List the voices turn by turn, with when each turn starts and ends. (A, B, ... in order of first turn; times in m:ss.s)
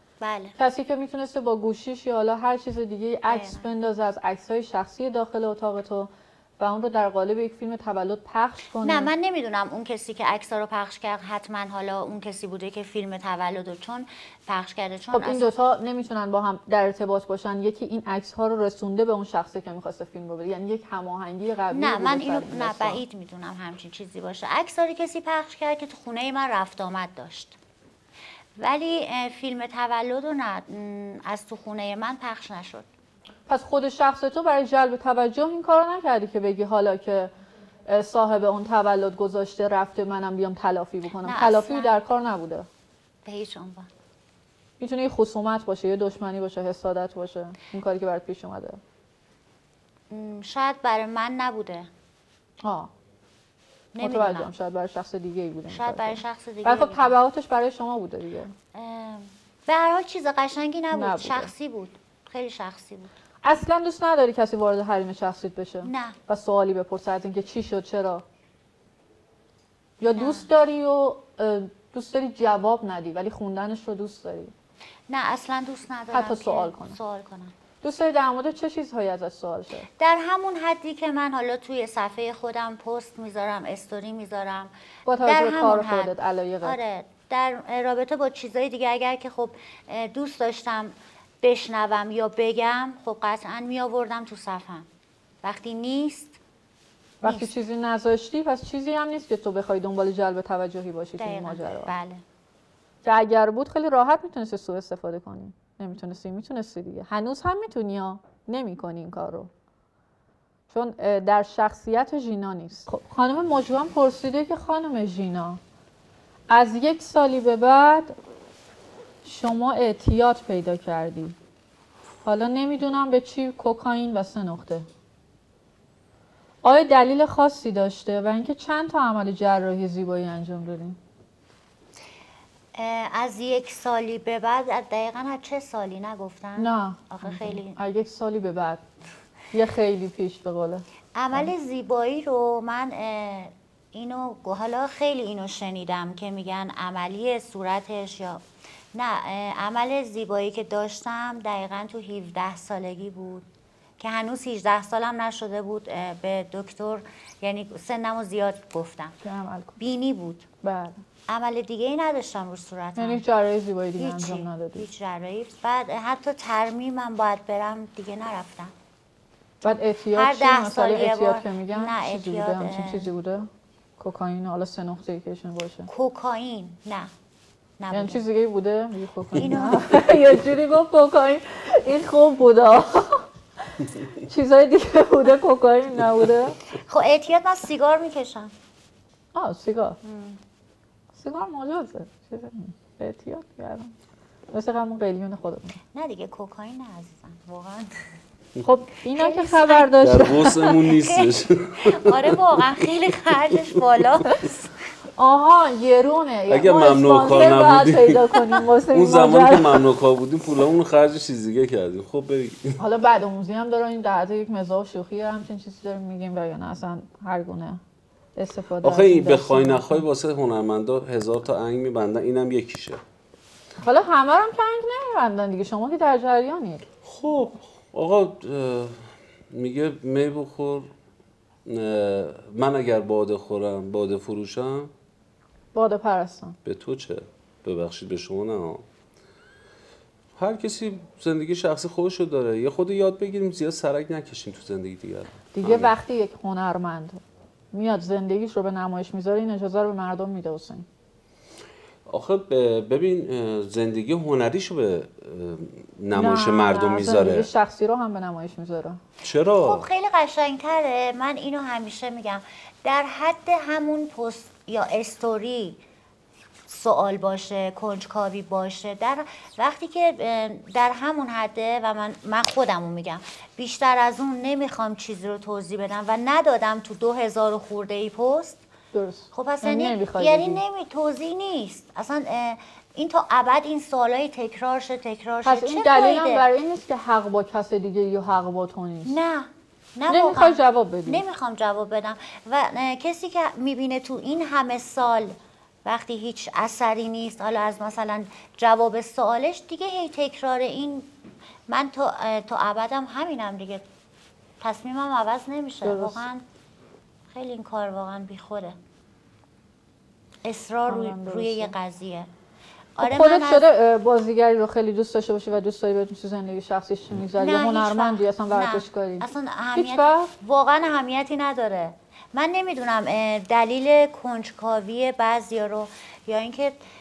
0:00.2-0:00.6 A
0:00.6-0:09.1 B
0:03.3-0:03.6 A
0:08.8-0:15.5 A
0:15.1-0:23.0 B
0:21.7-0:27.6 A
0:28.6-0:32.9 A
0:33.5-0:37.3 B
0:37.9-0:42.7 B
0:41.2-0:42.0 A
0:43.2-0:43.9 A
0:44.8-0:48.8 B
0:50.1-0:51.9 A
0:52.6-0:52.9 B
0:54.0-0:54.5 A
0:54.0-0:58.5 B
0:55.7-0:57.2 A
0:58.7-1:03.1 A
1:00.9-1:01.5 B
1:03.4-1:08.2 B
1:05.8-1:06.2 A
1:10.0-1:14.5 B
1:10.2-1:10.5 A
1:15.1-1:17.6 A
1:16.1-1:17.0 B
1:17.8-1:19.9 B
1:20.0-1:34.9 A
1:25.1-1:26.8 B
1:35.4-1:36.4 A
1:37.2-1:41.9 B
1:37.2-1:37.5 A
1:41.2-1:42.2 A
1:43.0-1:49.5 B
1:50.7-1:55.6 B
1:56.5-1:58.1 B
1:59.2-2:01.4 B
2:02.2-2:04.9 B
2:06.6-2:11.0 B
2:12.8-2:17.8 A
2:16.6-2:18.8 B
2:19.5-2:21.5 B
2:21.2-2:28.4 A
2:28.9-2:33.5 A
2:34.0-2:39.2 A
2:39.2-2:39.7 B
2:39.8-2:40.5 A
2:40.6-2:41.0 B
2:41.3-2:43.2 A
2:43.0-2:44.9 B
2:44.0-2:48.7 A
2:49.6-2:55.9 B
2:50.1-2:53.1 A
2:55.9-2:57.1 A
2:57.8-2:58.2 A
2:57.9-3:03.3 B
2:59.4-3:00.1 A
3:03.8-3:06.6 B
3:06.7-3:08.5 A
3:09.3-3:10.0 B
3:10.0-3:10.4 A
3:11.1-3:13.9 B
3:14.5-3:15.8 B
3:15.9-3:17.9 A
3:18.6-3:20.8 B
3:19.2-3:24.7 A
3:20.0-3:22.4 C
3:25.2-3:29.8 B
3:26.5-3:32.8 C
3:32.8-3:37.8 B
3:38.4-3:40.0 B
3:38.8-3:43.0 C
3:43.8-3:46.8 B
3:47.0-3:50.9 C
3:51.7-3:54.9 C
3:55.7-3:56.6 B
3:56.6-3:58.8 C
4:00.4-4:05.9 C
4:05.6-4:07.2 B
4:07.7-4:10.9 B
4:12.1-4:17.5 C
4:16.1-4:19.0 B
4:19.2-4:19.9 C
4:19.6-4:25.8 A
4:26.7-4:38.6 A
4:38.9-4:40.6 B
4:39.3-4:46.5 A
4:45.4-4:49.2 B
4:49.0-5:01.1 A
4:50.1-4:51.2 B
5:01.7-5:03.8 A
5:04.6-5:06.4 A
5:05.8-5:06.2 B
5:07.3-5:08.8 A
5:10.4-5:12.3 A
5:10.9-5:11.7 B
5:13.0-5:13.7 A
5:13.0-5:20.3 B
5:17.4-5:26.8 A